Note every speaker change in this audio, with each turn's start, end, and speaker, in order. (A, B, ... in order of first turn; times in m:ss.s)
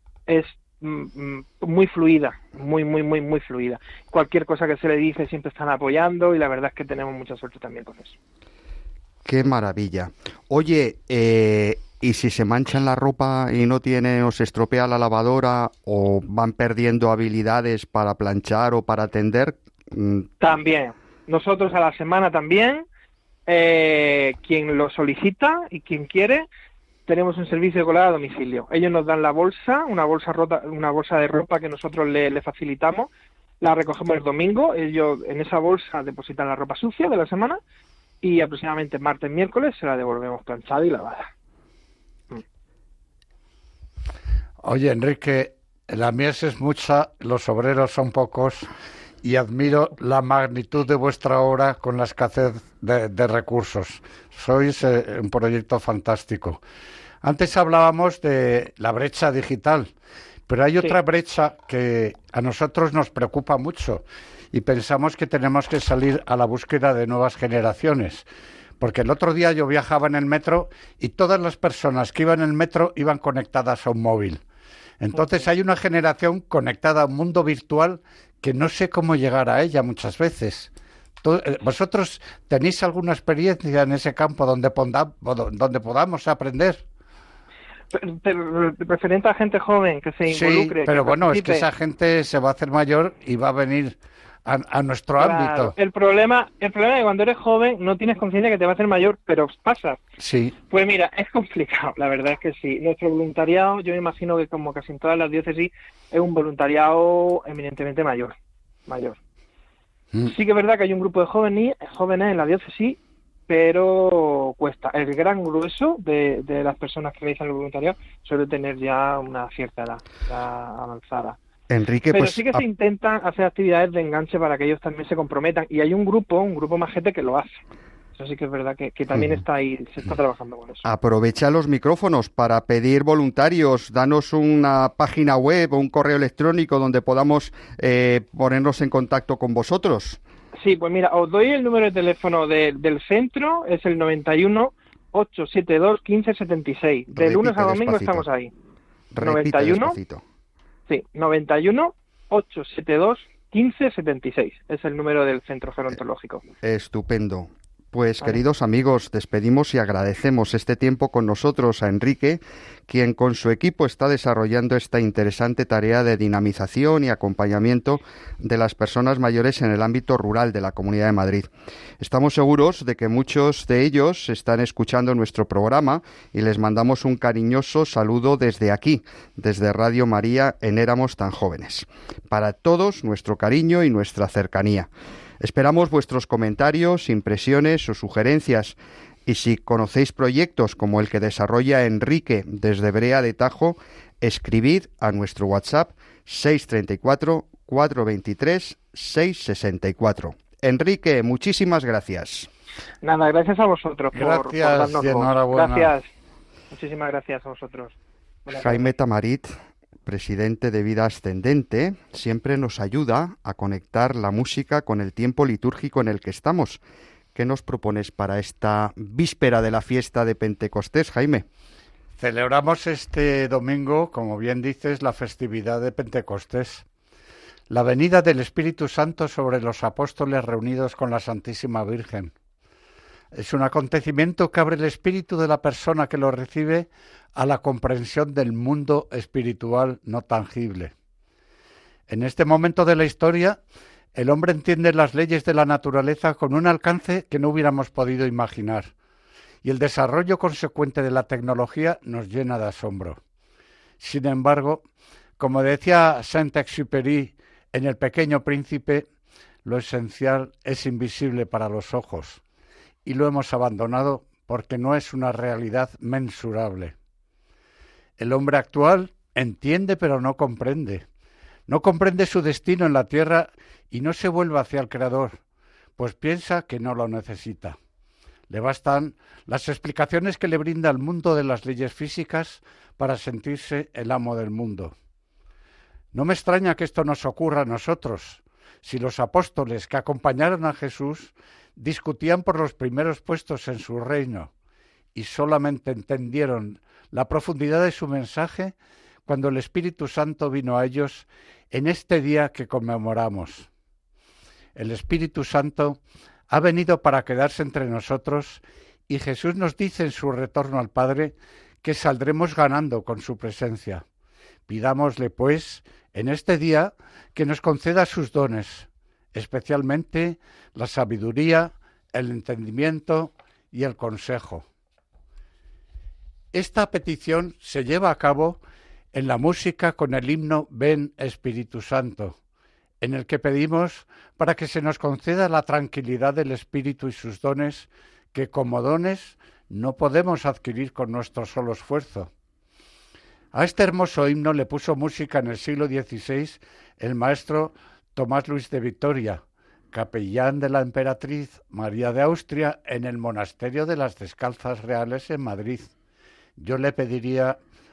0:00.3-0:08.2 A
0:09.2-0:20.3 B
0:20.4-0:22.8 A
0:23.5-0:26.4 A
0:27.1-0:37.6 A
0:38.2-0:41.3 A
0:44.6-0:48.7 C
0:49.2-0:56.6 C
0:57.2-0:59.9 C
1:00.5-1:08.2 C
1:08.8-1:14.4 C
1:15.0-1:20.7 C
1:15.1-1:15.5 A
1:21.2-1:26.8 C
1:27.9-1:31.6 A
1:30.3-1:35.7 C
1:35.2-1:40.0 A
1:40.2-1:40.6 C
1:40.7-1:48.3 A
1:48.9-1:49.2 A
1:50.2-2:01.4 A
2:01.7-2:02.6 B
2:02.1-2:07.6 A
2:08.2-2:10.8 A
2:09.1-2:09.4 B
2:10.8-2:20.2 B
2:20.6-2:28.5 A
2:27.1-2:28.2 B
2:29.1-2:30.2 B
2:29.2-2:30.0 A
2:30.9-2:36.4 A
2:36.6-2:51.5 B
2:52.0-3:04.9 B
3:05.4-3:22.5 B
3:23.0-3:26.1 A
3:24.1-3:25.9 C
3:26.7-3:28.0 A
3:28.5-3:28.9 A
3:28.5-3:29.5 B
3:30.0-3:36.8 B
3:37.3-3:41.4 B
3:42.2-3:46.8 C
3:47.7-3:52.3 C
3:53.3-4:00.9 C
4:02.1-4:03.6 C
4:04.1-4:08.9 C
4:09.6-4:13.2 C
4:14.0-4:14.8 C
4:15.4-4:19.1 C
4:19.6-4:22.4 C
4:23.0-4:26.9 C
4:28.2-4:31.0 C
4:31.7-4:35.4 C
4:36.0-4:37.8 C
4:38.5-4:44.9 C
4:46.1-4:54.5 C
4:55.1-4:58.7 C
4:59.3-5:03.7 C
5:04.7-5:14.0 C
5:14.7-5:24.6 C
5:26.5-5:28.6 C
5:29.1-5:32.4 C
5:33.0-5:42.3 C
5:43.5-5:55.9 C
5:56.6-5:57.6 C